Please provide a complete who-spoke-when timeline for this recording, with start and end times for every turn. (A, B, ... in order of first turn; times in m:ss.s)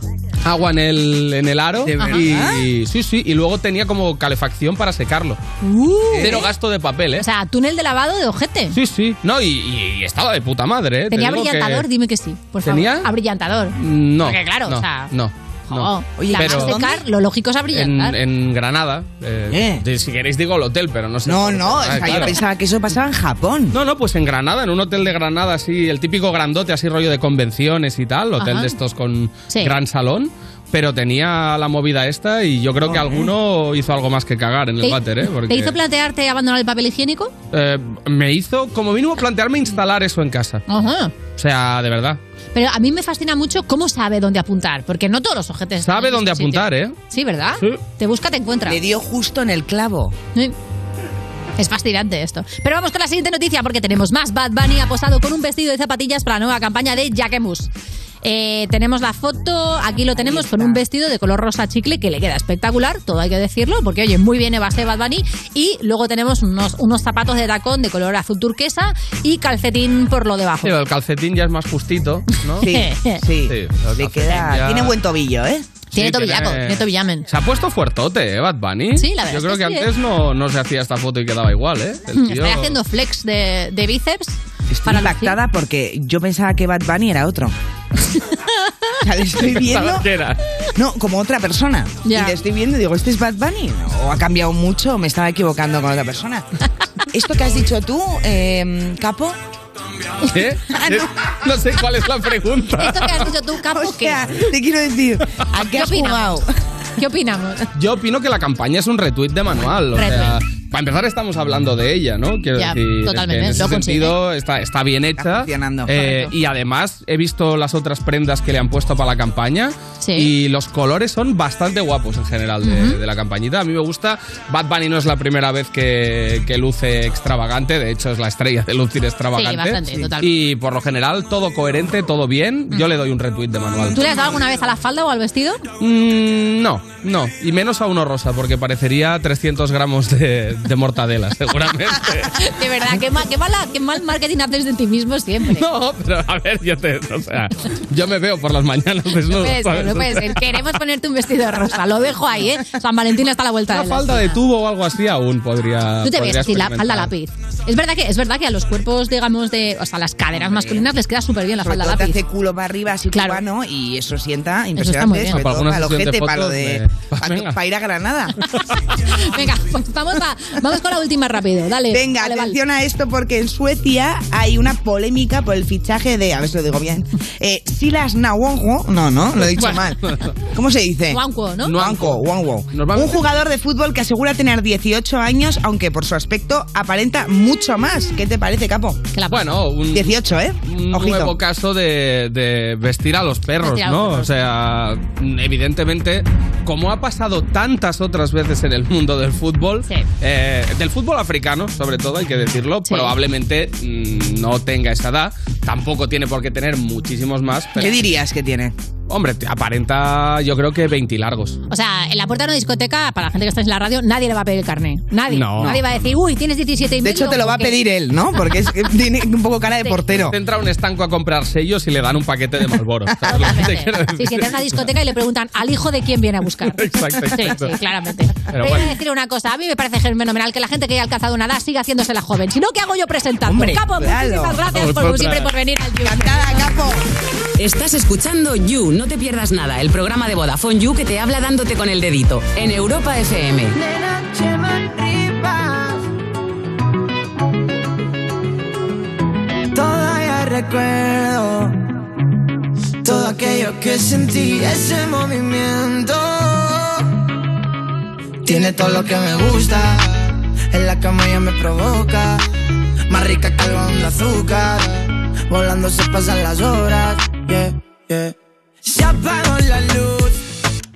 0:00.4-0:05.4 A
0:01.9-0:02.7 B
0:02.0-0:02.2 C
0:05.6-0:06.4 C
0:06.1-0:06.5 B
0:06.2-0:07.3 A
0:07.2-0:08.8 C
0:08.7-0:11.9 A
0:11.1-0:15.1 C
0:12.6-0:13.1 A
0:13.8-0:16.8 A
0:15.7-0:18.2 C
0:16.2-0:17.0 B
0:17.7-0:22.4 A
0:19.5-0:19.8 B
0:21.2-0:23.8 B
0:22.1-0:22.3 C
0:23.7-0:35.8 A
0:28.4-0:28.8 C
0:29.5-0:29.7 C
0:32.8-0:33.3 B
0:34.8-0:37.3 C
0:37.5-0:40.6 A
0:40.7-0:41.1 C
0:41.3-0:42.2 A
0:42.5-0:48.8 C
0:45.8-0:47.0 A
0:48.6-0:50.2 B
0:51.6-0:57.7 C
0:58.2-1:10.8 C
1:00.2-1:00.8 B
1:10.6-1:12.7 A
1:12.6-1:15.7 B
1:12.6-1:13.2 C
1:13.4-1:14.9 A
1:15.9-1:17.3 C
1:15.9-1:22.8 A
1:19.0-1:19.9 C
1:22.1-1:25.4 C
1:24.7-1:27.6 B
1:29.0-1:30.1 B
1:29.4-1:30.4 A
1:30.8-1:36.5 B
1:32.0-1:32.4 C
1:37.1-1:39.4 B
1:40.3-1:43.3 A
1:40.7-1:41.1 B
1:42.8-1:44.2 C
1:43.6-1:46.5 B
1:45.7-1:46.4 C
1:47.0-1:47.6 C
1:47.8-2:14.5 A
1:49.9-1:50.4 C
1:52.6-1:54.2 C
1:55.2-1:56.0 B
1:55.9-1:56.3 C
2:00.0-2:00.3 C
2:02.6-2:03.0 C
2:09.4-2:10.3 C
2:13.9-2:15.6 C
2:15.8-2:22.4 A
2:22.3-2:25.7 C
2:25.5-2:30.6 A
2:29.3-2:34.4 C
2:33.7-2:37.1 A
2:36.0-2:42.2 C
2:40.3-2:40.9 B
2:41.6-2:48.4 B
2:43.1-2:43.4 C
2:44.8-2:45.4 C
2:45.3-2:47.6 A
2:49.0-2:52.6 C
2:51.9-3:01.2 B
2:59.6-3:00.3 A
3:01.1-3:01.8 C
3:01.7-3:03.2 A
3:01.7-3:09.0 B
3:09.1-3:09.6 C
3:09.3-3:27.9 A
3:09.9-3:11.4 B
3:13.6-3:14.4 C
3:22.9-3:23.2 C
3:27.8-3:28.7 B
3:29.1-3:31.6 A
3:31.7-3:37.8 C
3:35.3-3:35.8 A
3:35.6-3:35.8 B
3:37.0-3:40.4 B
3:40.1-3:44.8 A
3:43.2-3:43.4 B
3:43.3-3:56.7 C
3:46.6-3:47.8 A
3:48.5-3:48.9 A
3:53.4-3:54.7 B
3:54.7-3:55.5 A
3:56.0-3:57.0 B
3:57.6-4:03.8 D
4:03.7-4:06.1 E
4:09.7-4:11.8 E
4:13.0-4:17.0 E
4:18.4-4:22.4 E
4:23.1-4:30.4 E